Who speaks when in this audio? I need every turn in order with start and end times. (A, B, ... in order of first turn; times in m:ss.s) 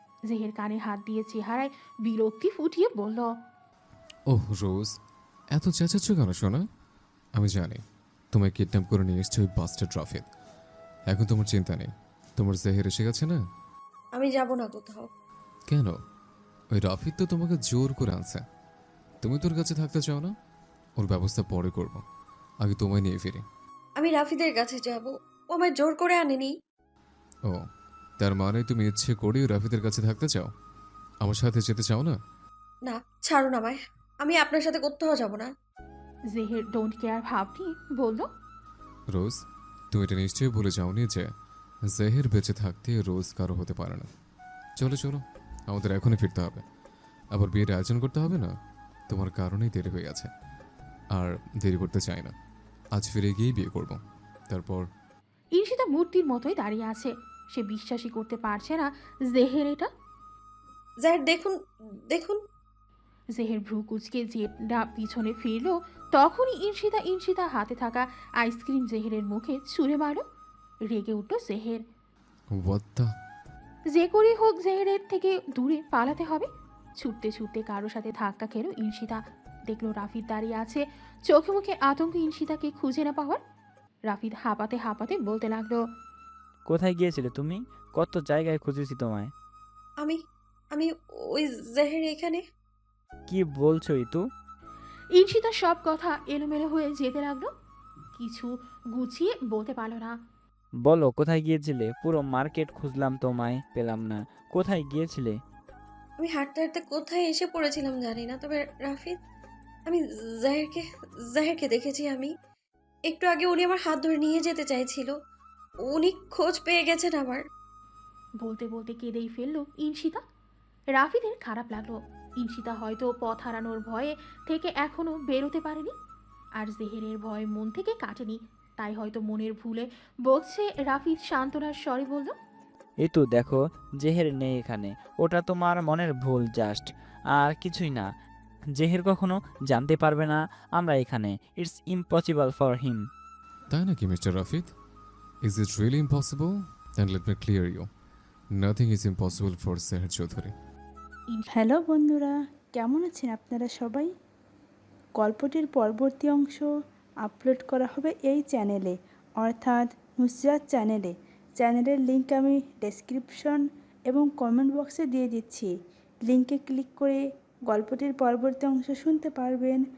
0:00.3-0:03.3 A
0:04.3-0:04.9 B
0:05.6-0:06.6 B
0:07.4-0:07.8 B
0:08.3-0:10.3 B
0:11.1-0:13.4 B
0:14.2-0:15.1 C
0:15.7-0:16.0 B
0:16.7-0:18.4 B
0:19.2-0:20.3 B
0:21.0-0:22.0 B
0:22.6-0:23.5 B
0:24.0-0:26.5 C
0:28.2-0:30.5 B
0:31.2-0:32.2 B
0:32.9-0:35.5 C
0:36.3-0:38.3 A
0:39.9-0:41.3 B
0:41.9-0:44.1 B
0:44.8-0:46.6 B
0:47.3-0:48.5 B
0:49.1-0:50.3 B
0:51.2-0:52.3 B
0:53.0-0:54.8 B
0:55.6-0:59.9 A
1:01.0-1:01.6 C
1:02.1-1:02.4 C
1:03.4-1:10.2 A
1:10.9-1:11.8 A
1:12.6-1:13.1 B
1:13.9-1:16.5 A
1:17.0-1:23.4 A
1:24.1-1:25.8 A
1:26.7-1:29.3 D
1:30.7-1:32.4 C
1:33.3-1:34.3 D
1:35.2-1:37.5 A
1:38.2-1:40.1 A
1:40.8-1:45.4 D
1:46.2-1:49.2 C
1:49.9-1:52.3 C
1:53.1-1:55.1 C
1:55.9-1:57.4 C
1:58.4-2:00.2 A
2:01.0-2:05.9 A
2:06.6-2:12.3 A
2:13.0-2:18.1 D
2:18.8-2:23.0 D
2:23.7-2:24.7 B
2:25.4-2:27.9 B
2:28.6-2:30.5 B
2:31.5-2:34.1 E
2:35.2-2:36.7 E
2:37.2-2:45.7 E
2:46.3-2:49.8 E